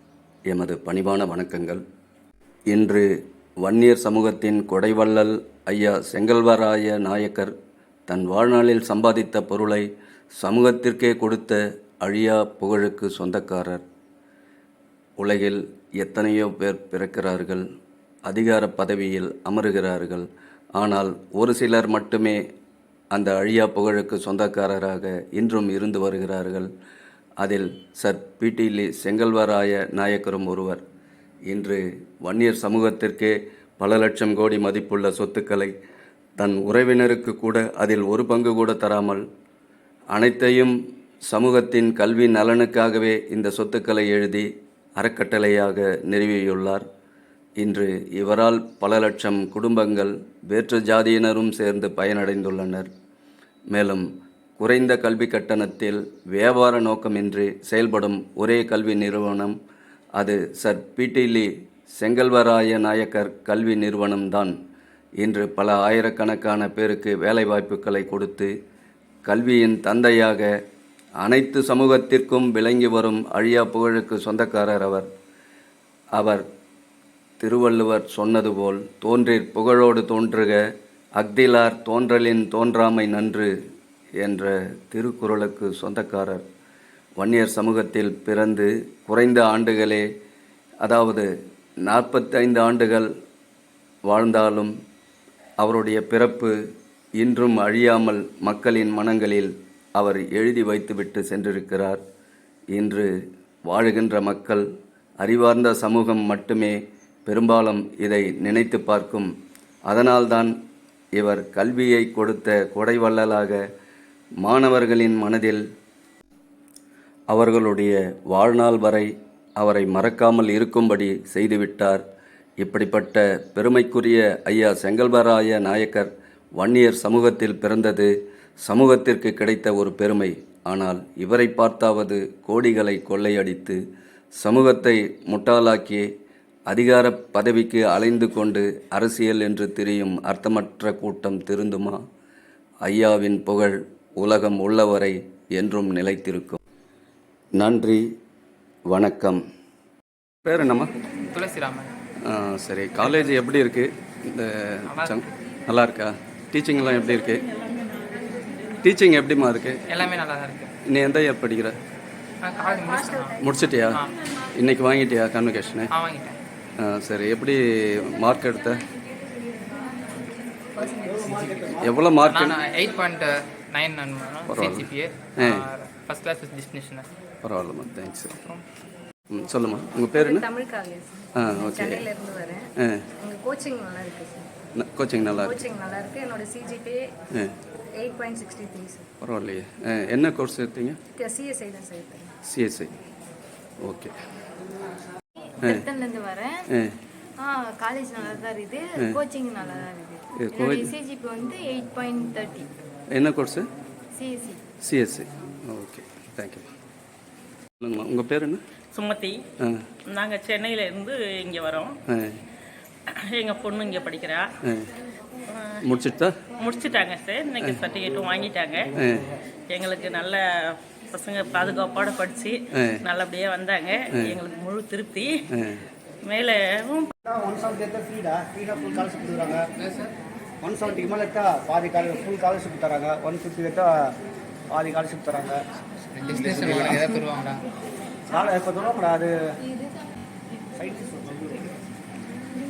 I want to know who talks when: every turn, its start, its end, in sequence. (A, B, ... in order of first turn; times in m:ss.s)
0:00.5-0:01.8 A
0:02.7-0:03.1 A
0:03.6-0:07.5 A
0:08.1-0:09.9 A
0:10.4-0:13.8 A
0:15.2-0:17.6 A
0:18.2-0:22.4 A
0:23.1-0:26.7 A
0:27.4-0:30.8 A
0:31.5-0:35.7 A
0:36.4-0:39.2 A
0:40.1-0:40.7 A
0:41.3-0:46.8 A
0:47.6-0:52.9 A
0:53.7-0:54.1 A
0:54.6-0:59.5 A
1:00.2-1:04.5 A
1:05.2-1:08.5 A
1:09.2-1:10.5 A
1:11.2-1:15.1 A
1:16.1-1:16.4 A
1:17.4-1:20.6 A
1:21.2-1:23.5 A
1:24.2-1:26.4 A
1:27.2-1:30.0 A
1:30.8-1:31.2 A
1:31.8-1:33.1 A
1:34.1-1:34.7 A
1:35.6-1:36.5 A
1:37.2-1:42.0 A
1:42.7-1:43.1 A
1:43.7-1:44.6 A
1:45.2-1:49.3 A
1:49.9-1:50.5 A
1:51.1-1:53.6 A
1:54.4-1:55.6 A
1:57.3-2:02.0 A
2:02.6-2:08.1 A
2:08.6-2:13.8 A
2:14.4-2:16.1 A
2:16.7-2:22.0 A
2:22.8-2:26.6 A
2:27.6-2:28.0 A
2:28.9-2:29.4 A
2:30.4-2:30.9 A
2:31.3-2:31.9 B
2:32.2-2:37.4 A
2:33.0-2:33.4 B
2:34.9-2:35.2 B
2:38.8-2:39.8 A
2:39.9-2:40.7 B
2:40.8-2:41.8 A
2:42.4-2:43.4 B
2:42.6-2:43.6 C
2:43.4-2:44.0 A
2:44.6-2:45.9 A
2:45.9-2:46.4 B
2:46.8-2:48.8 A
2:50.8-2:51.4 C
2:51.1-2:51.9 D
2:51.8-2:52.6 A
2:52.2-2:57.1 B
2:54.5-2:55.7 A
2:57.4-2:58.5 A
2:59.3-3:00.4 A
3:00.1-3:02.7 C
3:01.4-3:02.1 A
3:02.8-3:03.0 A
3:03.2-3:04.5 C
3:04.7-3:05.7 A
3:05.3-3:07.1 C
3:08.0-3:09.1 C
3:09.2-3:11.0 A
3:11.1-3:12.3 C
3:12.5-3:12.9 A
3:13.8-3:14.2 A
3:15.4-3:16.7 E
3:16.7-3:17.0 A
3:17.4-3:22.7 E
3:20.4-3:21.0 A
3:23.1-3:23.6 A
3:24.1-3:24.6 E
3:24.8-3:26.7 A
3:27.8-3:28.6 A
3:28.9-3:29.4 F
3:29.6-3:29.8 A
3:30.1-3:32.0 F
3:32.1-3:32.4 A
3:33.3-3:34.5 F
3:34.6-3:34.9 A
3:35.5-3:35.8 F
3:35.8-3:36.4 A
3:36.6-3:38.9 F
3:38.9-3:39.3 A
3:39.7-3:45.4 F
3:42.7-3:43.0 A
3:45.5-3:45.8 A
3:46.2-3:47.1 F
3:47.2-3:49.7 D
3:49.8-3:50.1 B
3:50.6-3:54.1 D
3:54.7-3:55.6 D
3:56.1-3:57.6 B
3:56.6-3:57.0 D
3:58.3-3:59.3 D
4:00.7-4:01.7 D